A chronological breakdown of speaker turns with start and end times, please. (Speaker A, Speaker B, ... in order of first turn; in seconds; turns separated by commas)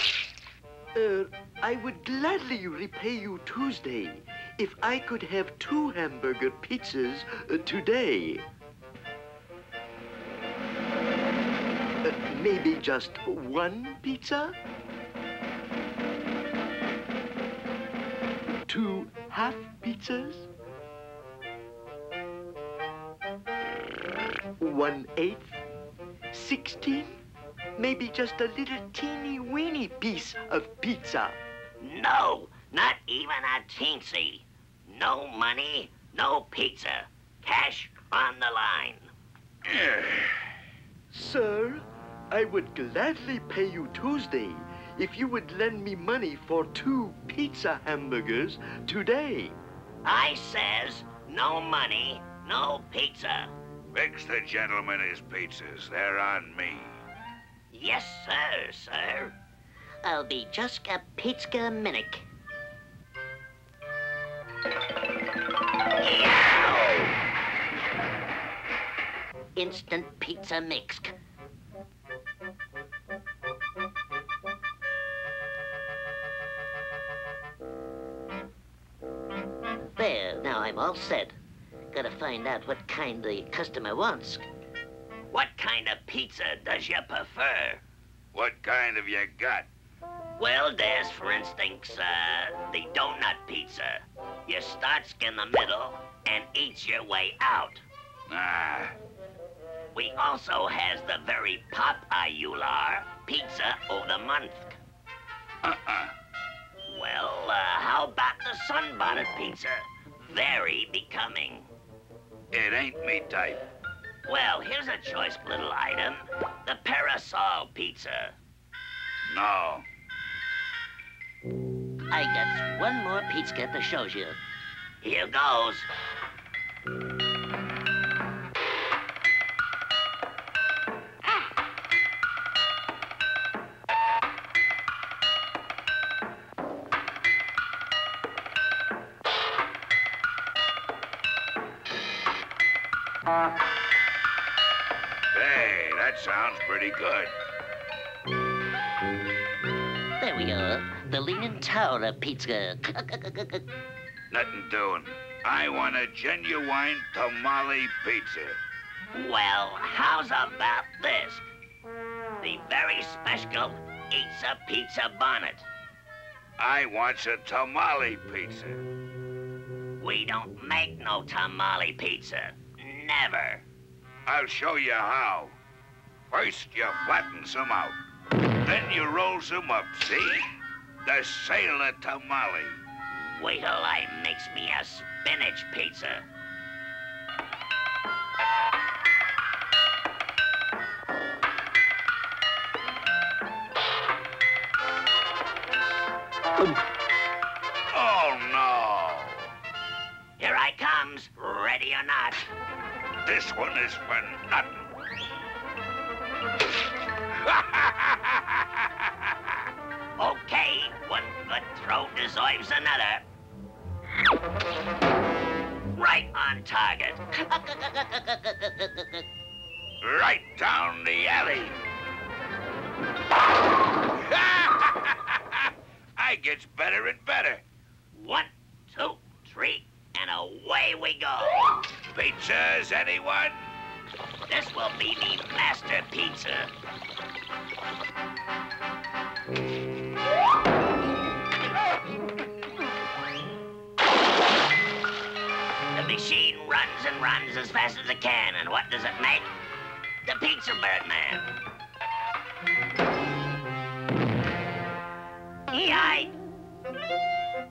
Speaker A: 0.9-8.4, Speaker A: 12.0-14.6, Speaker A: 18.7-20.5, Speaker A: 24.6-25.6, Speaker A: 26.3-27.2, Speaker A: 27.8-31.4, Speaker B: 31.8-39.1, Speaker C: 39.6-40.5, Speaker A: 41.1-49.5, Speaker B: 50.0-53.5, Speaker C: 53.9-57.0, Speaker B: 57.7-59.4, Speaker B: 60.0-62.3, Speaker B: 66.0-67.2, Speaker B: 69.5-71.1, Speaker B: 80.0-81.3, Speaker B: 81.9-84.4, Speaker B: 85.3-87.8, Speaker C: 88.3-89.7, Speaker B: 90.4-97.8, Speaker C: 98.3-99.0, Speaker B: 99.9-104.8, Speaker C: 105.6-106.1, Speaker B: 106.9-111.7, Speaker C: 112.5-113.6, Speaker B: 114.2-118.3, Speaker C: 119.3-119.8, Speaker B: 122.1-124.4, Speaker B: 125.0-125.9, Speaker C: 145.3-147.3, Speaker B: 150.2-153.6, Speaker C: 154.3-158.6, Speaker B: 159.1-161.4, Speaker B: 162.4-165.7, Speaker C: 166.6-168.8, Speaker B: 170.0-173.6, Speaker C: 174.2-175.6, Speaker C: 176.3-178.0, Speaker C: 178.6-180.4, Speaker C: 181.0-182.8, Speaker B: 183.1-186.2, Speaker C: 197.9-199.5, Speaker B: 200.4-202.4, Speaker C: 203.2-204.7, Speaker C: 207.4-208.9, Speaker B: 210.2-213.2, Speaker B: 215.9-219.2, Speaker C: 220.0-221.8, Speaker C: 224.2-227.6, Speaker B: 228.1-231.9, Speaker C: 232.1-233.6, Speaker B: 234.5-236.7, Speaker B: 245.9-249.5, Speaker B: 250.2-251.5, Speaker B: 255.7-256.4